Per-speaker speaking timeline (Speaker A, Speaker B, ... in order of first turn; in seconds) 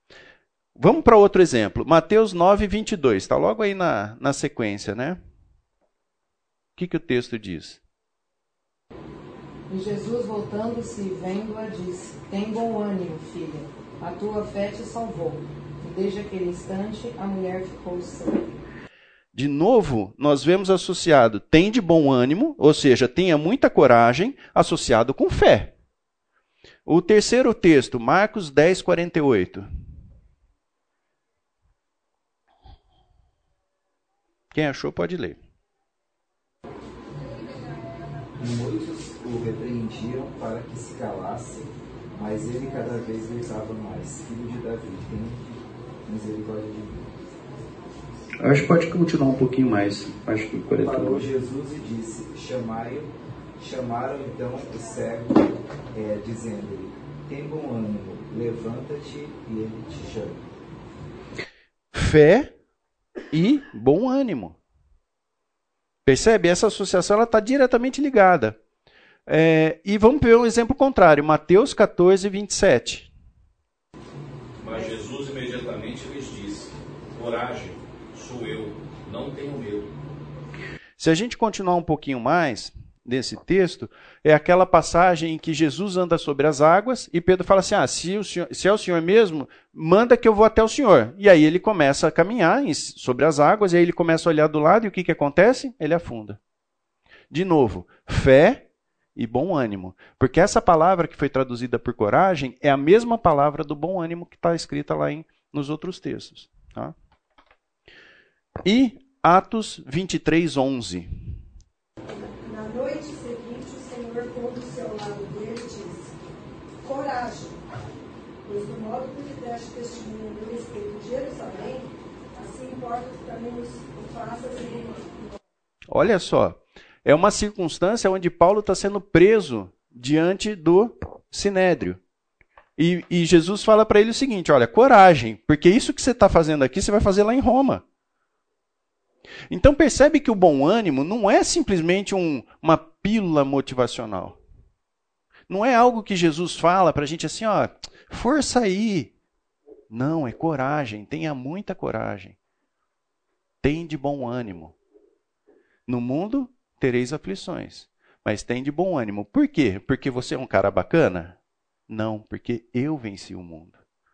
Speaker A: 0.8-5.2, 6.8-7.8, 19.3-25.7, 26.9-29.6, 34.5-35.4, 48.4-51.3, 61.9-62.5, 63.3-64.6, 66.1-68.6, 69.3-73.1, 81.0-96.4, 97.3-106.9, 108.6-111.1, 125.9-132.0, 132.8-137.8, 139.5-144.4, 145.5-149.1, 149.9-152.4, 153.6-154.8, 155.9-161.4, 161.9-163.8
Speaker B: 9.7-18.4
Speaker C: 38.4-47.1, 50.8-60.4
Speaker D: 74.6-80.0
Speaker E: 112.3-116.1, 116.8-117.6, 118.5-125.2